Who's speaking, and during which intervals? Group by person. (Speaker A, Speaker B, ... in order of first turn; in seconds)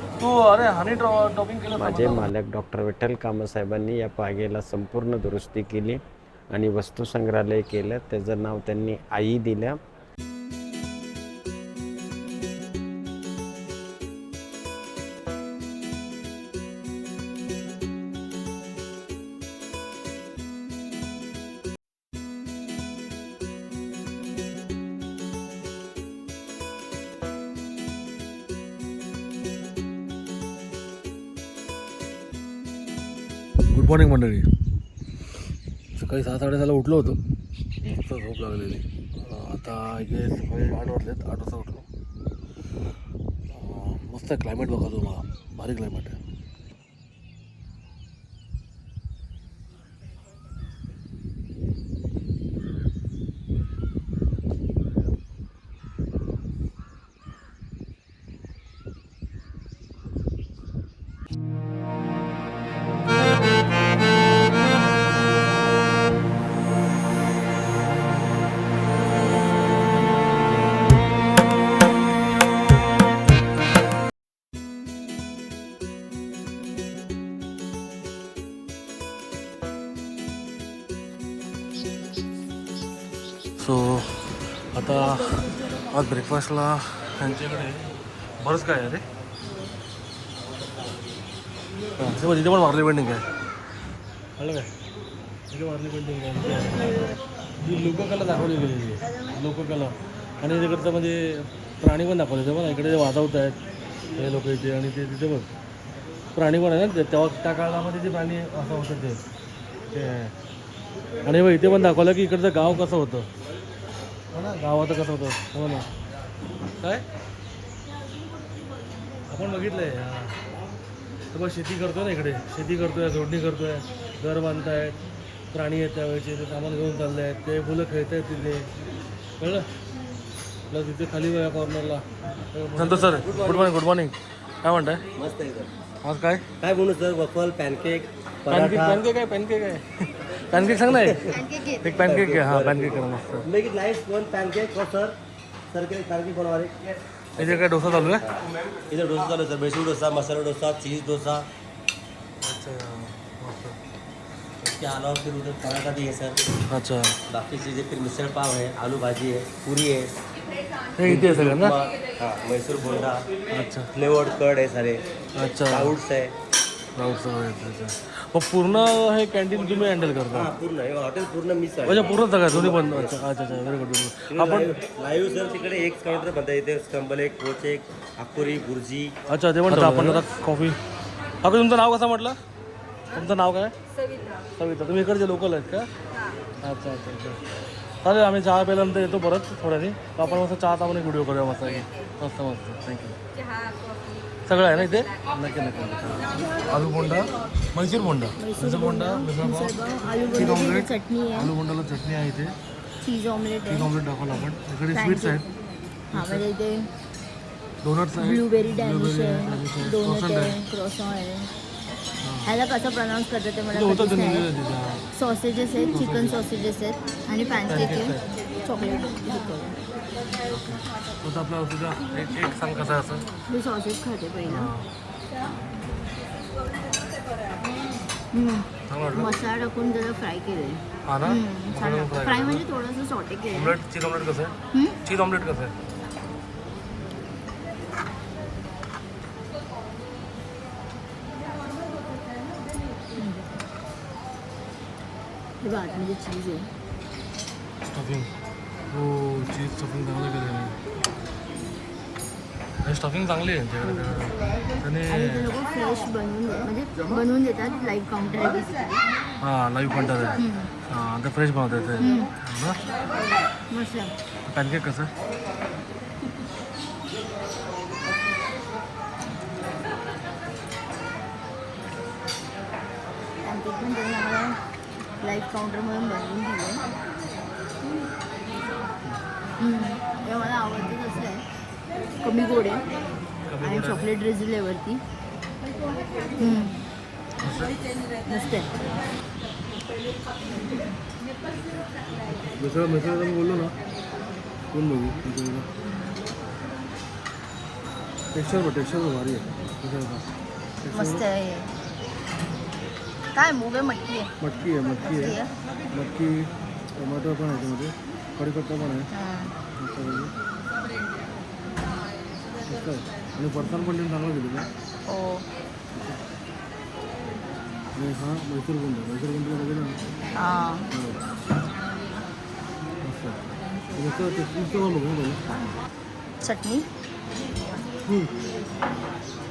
Speaker A: 0.2-2.3, 33.7-34.5, 36.0-37.2, 37.8-41.9, 43.5-46.2, 83.6-87.9, 88.4-89.0, 92.0-93.2, 94.4-94.7, 95.5-96.9, 97.6-103.6, 104.2-105.5, 106.4-109.2, 109.9-110.3, 111.2-113.3, 114.3-115.9, 119.3-120.3, 121.3-125.0, 125.5-128.7, 129.4-129.7, 130.7-135.0, 136.0-136.4, 138.5-141.3, 141.8-143.5, 147.4-148.2, 152.4-153.8, 156.7-157.2, 161.0-161.8, 163.5-163.9, 165.4-165.9, 167.0-170.5, 171.8-174.7, 179.3-180.8, 181.4-182.4, 183.1-183.7, 184.6-185.9, 186.6-187.4, 188.0-193.2, 194.5-199.8, 200.3-202.5, 203.7-205.4, 206.1-206.4, 207.8-210.6, 212.2-212.5, 213.7-215.0, 215.9-216.4, 217.7-218.2, 220.5-223.3, 224.5-224.9, 228.9-229.3, 231.1-232.6, 233.5-235.7, 247.8-248.3, 248.9-250.8, 252.8-255.5, 259.4-262.8, 264.5-265.1, 283.5-284.1, 287.4-287.8, 292.5-293.7, 294.7-295.7, 298.3-300.3, 300.8-301.2, 304.4-305.4, 305.9-309.1, 309.8-310.3, 312.7-314.7, 315.9-316.2, 318.0-320.0, 320.9-321.2, 323.0-325.4, 328.1-328.3
Speaker B: 1.8-9.8
Speaker C: 132.8-133.7, 135.2-135.7, 136.6-139.0, 140.8-141.3, 141.9-145.2, 145.7-146.8, 147.4-151.5, 154.6-156.4, 157.3-160.1, 161.0-163.3, 163.9-165.0, 165.7-166.3, 170.3-173.2, 174.3-179.2, 179.7-180.2
Speaker D: 141.3-142.0, 198.4-201.5, 203.0-203.9, 204.9-205.5, 206.1-206.9, 208.2-211.5, 212.4-214.5, 215.1-219.8, 223.5-224.7, 228.3-233.8, 234.7-235.0, 243.2-243.5, 245.6-246.7, 254.1-259.0, 260.4-260.7, 262.0-262.3, 263.7-264.1, 273.4-274.6, 275.2-276.8, 279.6-281.4, 282.2-282.9, 283.6-285.0, 286.4-286.9, 288.3-288.7, 300.9-301.7, 303.3-304.3, 305.0-305.5, 309.1-309.6, 315.1-315.4, 320.4-320.9, 326.4-326.9